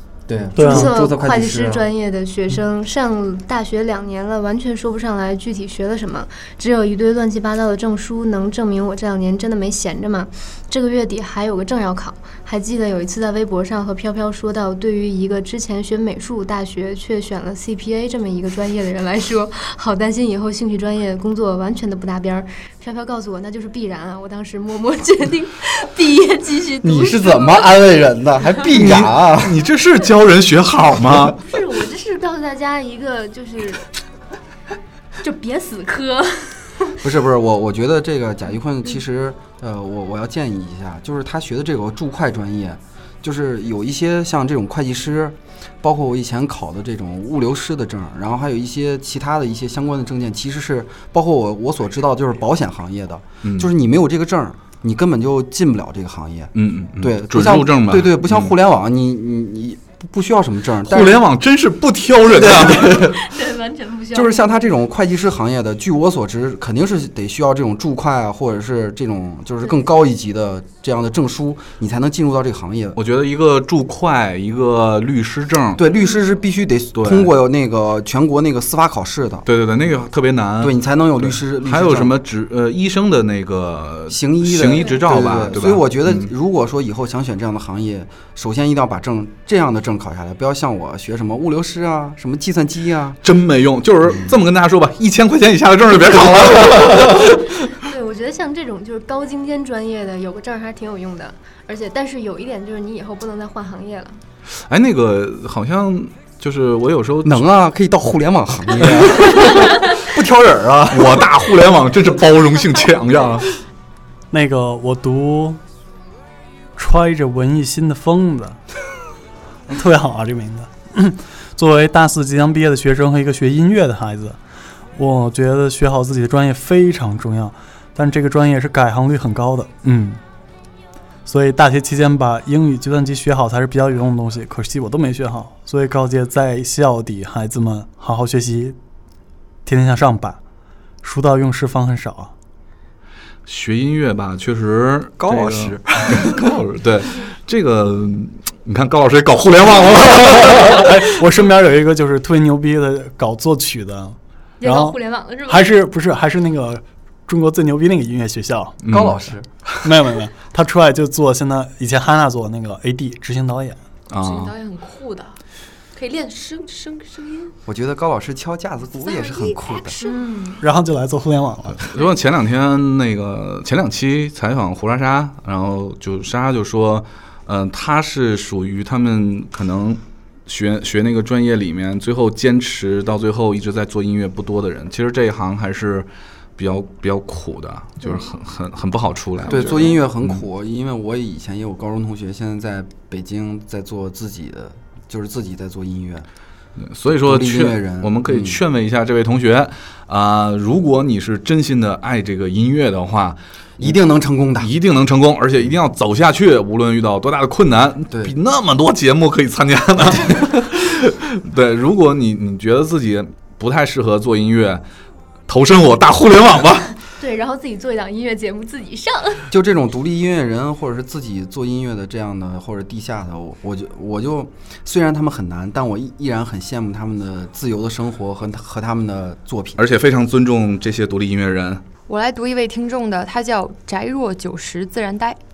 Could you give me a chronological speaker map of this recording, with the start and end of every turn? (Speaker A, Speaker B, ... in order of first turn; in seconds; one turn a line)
Speaker A: 0.3-1.9
Speaker B: 0.6-0.9
Speaker C: 0.6-27.7
Speaker A: 26.8-29.6
Speaker D: 28.7-31.4
Speaker C: 31.4-33.8
Speaker C: 35.2-37.0
Speaker A: 37.0-61.2
Speaker D: 53.4-53.7
Speaker D: 56.5-58.5
Speaker D: 60.8-63.1
Speaker A: 62.4-63.1
Speaker C: 62.9-64.5
Speaker A: 64.1-73.0
Speaker D: 73.0-75.8
Speaker A: 75.8-79.5
Speaker D: 77.0-77.3
Speaker D: 79.5-86.3
Speaker A: 80.6-82.2
Speaker A: 84.1-93.2
Speaker D: 93.2-97.7
Speaker C: 97.8-104.2
Speaker D: 104.7-107.5
Speaker A: 107.2-109.5
Speaker D: 109.2-109.9
Speaker B: 110.2-111.1
Speaker D: 110.9-113.6
Speaker B: 114.3-115.6
Speaker B: 116.8-118.6
Speaker B: 119.7-124.4
Speaker B: 125.0-130.2
Speaker B: 131.3-138.8
Speaker B: 139.7-140.4
Speaker B: 141.0-142.3
Speaker D: 143.5-151.2
Speaker A: 145.2-146.4
Speaker B: 150.6-158.8
Speaker C: 154.6-155.7
Speaker D: 158.8-159.2
Speaker A: 158.9-159.5
Speaker B: 159.8-163.8
Speaker D: 164.1-164.5
Speaker E: 164.2-165.4
Speaker E: 165.9-167.6
Speaker A: 167.7-170.0
Speaker E: 169.0-170.3
Speaker C: 170.0-170.6
Speaker B: 170.6-171.9
Speaker D: 171.9-190.4
Speaker A: 189.5-196.3
Speaker E: 189.5-190.0
Speaker D: 196.8-203.9
Speaker A: 197.2-198.6
Speaker A: 203.8-204.7
Speaker D: 204.6-214.8
Speaker D: 215.5-216.9
Speaker C: 217.2-219.4
Speaker A: 219.5-229.8
Speaker D: 229.8-231.8
Speaker E: 232.1-235.4